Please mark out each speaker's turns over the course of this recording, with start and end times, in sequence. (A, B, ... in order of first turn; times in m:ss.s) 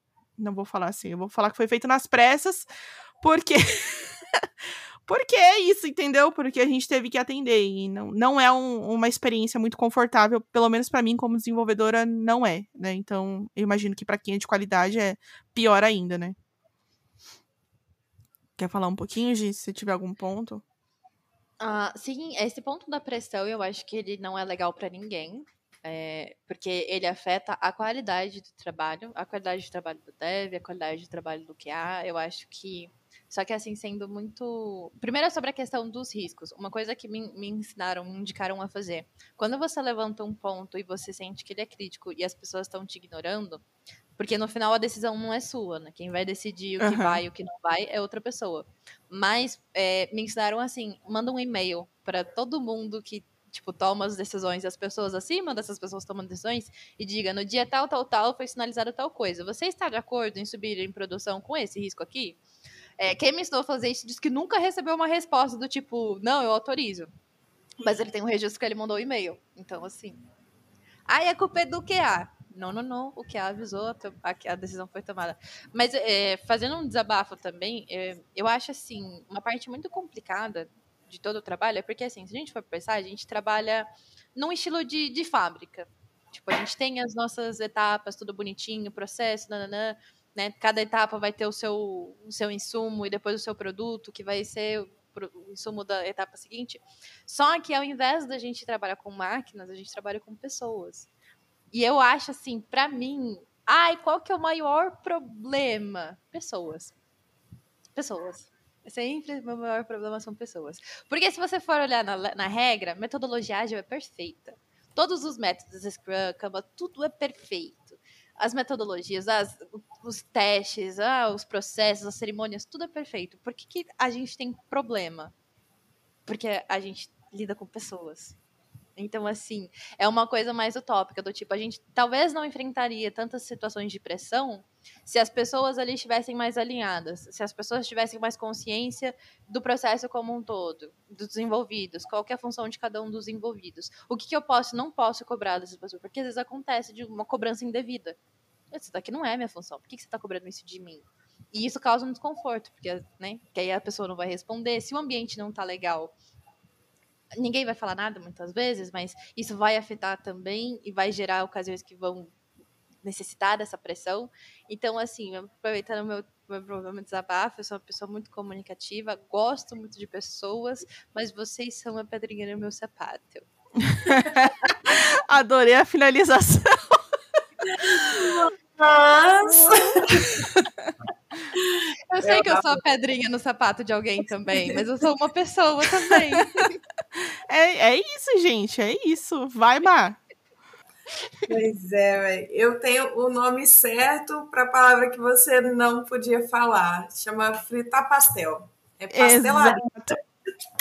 0:00.4-0:02.7 A
0:03.2-0:04.5 A
0:05.0-0:16.3 A
0:18.6-0:20.6 A
0:21.6-0:43.6 B
0:44.2-1:02.4 B
0:46.8-0:47.2 A
1:03.0-1:07.1 B
1:07.8-1:10.2 B
1:11.1-1:41.1 B
1:41.7-1:46.9 B
1:47.9-2:05.3 B
2:06.2-2:08.4 B
2:09.0-2:28.2 B
2:28.7-2:36.1 B
2:37.4-2:42.3 B
2:43.0-2:53.4 B
2:53.8-2:57.0 A
2:57.7-3:00.5 C
2:57.9-2:58.4 A
2:59.5-3:00.9 A
3:01.5-3:02.6 C
3:02.1-3:06.7 B
3:07.2-3:10.2 A
3:11.5-3:20.2 C
3:19.1-3:20.2 A